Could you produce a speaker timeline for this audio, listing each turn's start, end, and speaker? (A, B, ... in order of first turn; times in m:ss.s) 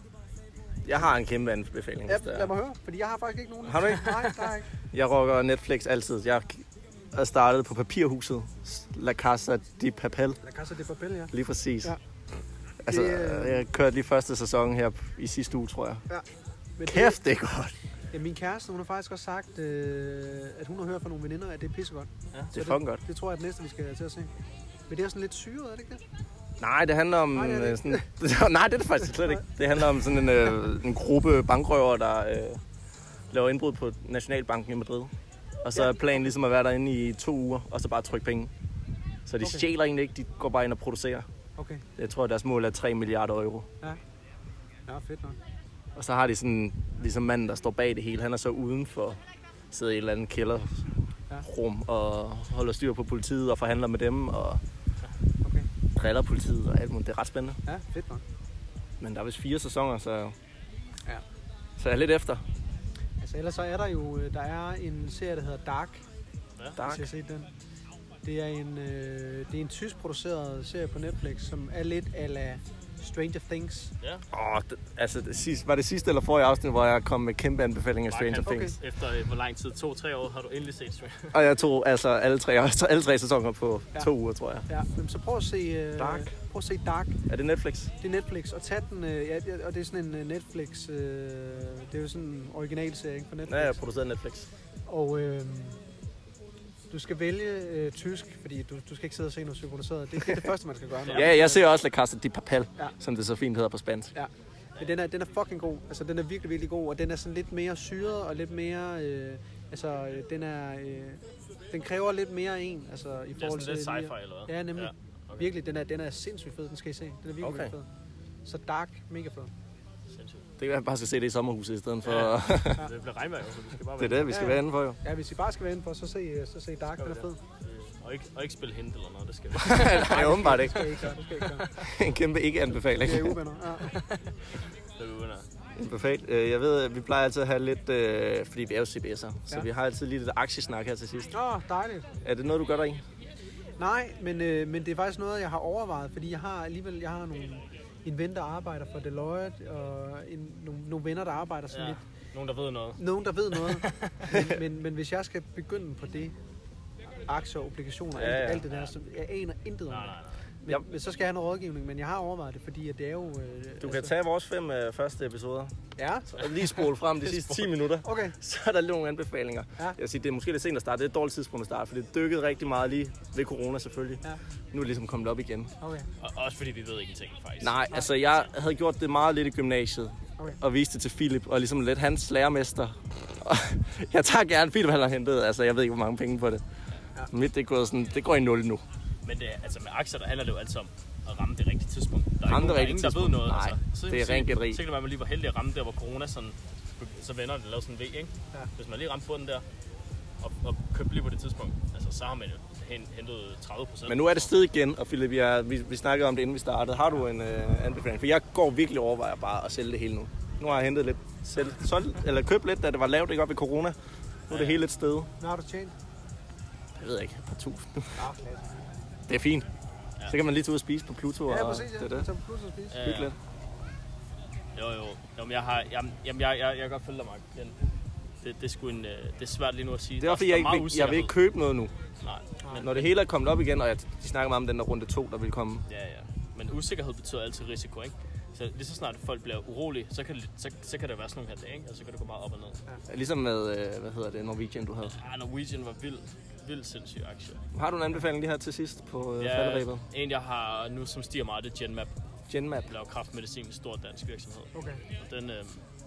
0:00.8-0:02.5 A
0:02.1-0:04.7 B
0:03.6-0:04.1 A
0:04.9-0:10.4 A
0:10.4-0:12.0 B
0:11.3-0:11.9 A
0:12.8-0:16.0 A
0:12.8-0:13.6 B
0:16.1-0:17.2 B
0:16.8-0:17.7 A
0:18.1-0:24.3 B
0:22.5-0:23.0 A
0:24.9-0:26.0 B
0:26.6-0:32.6 A
0:27.3-0:28.1 B
0:33.3-0:38.5 A
0:39.2-0:41.3 A
0:41.6-0:41.8 B
0:42.0-0:43.7 A
0:44.9-0:45.4 B
0:45.9-0:54.6 A
0:55.4-0:55.7 B
0:55.9-0:57.6 A
0:57.6-0:58.2 B
0:59.0-1:00.4 A
1:01.8-1:02.4 A
1:03.2-1:06.0 B
1:06.8-1:07.1 A
1:06.8-1:07.5 B
1:08.2-1:13.9 B
1:14.0-1:14.2 C
1:14.3-1:18.7 A
1:18.1-1:21.4 C
1:18.4-1:18.8 B
1:21.3-1:24.7 A
1:24.7-1:27.2 B
1:26.0-1:26.3 A
1:27.3-1:27.9 A
1:28.0-1:33.8 B
1:33.4-1:34.5 A
1:34.8-1:35.8 B
1:36.9-1:41.6 B
1:41.1-1:44.1 A
1:44.1-1:57.9 B
1:53.4-1:55.5 C
1:57.4-1:57.7 A
1:58.4-1:59.5 B
2:00.1-2:00.4 C
2:00.6-2:02.9 A
2:02.0-2:04.3 C
2:04.0-2:05.0 A
2:04.3-2:07.4 B
2:07.0-2:10.2 C
2:09.6-2:11.0 A
2:10.0-2:11.7 B
2:11.6-2:11.9 C
2:11.8-2:13.4 A
2:12.8-2:13.9 B
2:13.8-2:14.4 C
2:14.9-2:15.5 C
2:15.7-2:21.3 A
2:21.3-2:22.1 B
2:22.2-2:23.0 A
2:23.8-2:32.0 B
2:31.7-2:34.2 C
2:33.0-2:36.4 B
2:37.2-2:44.1 B
2:38.1-2:38.7 A
2:39.9-2:40.4 C
2:43.8-2:45.7 A
2:46.0-2:46.3 B
2:46.2-2:55.7 A
2:46.4-2:47.7 C
2:48.0-2:48.3 B
2:55.8-2:56.1 B
2:56.2-2:57.7 C
2:57.6-3:06.6 A
3:07.3-3:08.8 A
3:09.2-3:19.6 C
3:12.4-3:14.8 A
3:20.4-3:24.5 C
3:24.1-3:34.0 A
3:34.5-3:35.3 A
3:34.5-3:34.9 C
3:35.4-3:35.9 B
3:37.0-3:38.2 A
3:38.2-3:38.7 B
3:39.3-3:39.7 A
3:40.3-3:42.3 A
3:41.5-3:43.0 B
3:42.9-3:43.3 C
3:43.0-3:43.4 A
3:44.7-3:47.8 C
3:48.4-3:51.3 C
3:50.2-3:51.9 A
3:52.2-3:53.1 C
3:52.8-3:55.8 A
3:55.9-4:02.8 C
4:03.1-4:05.2 A
4:05.1-4:07.6 C
4:07.7-4:10.0 A
4:09.4-4:12.1 C
4:12.5-4:12.9 A
4:12.8-4:15.8 C
4:14.7-4:15.0 B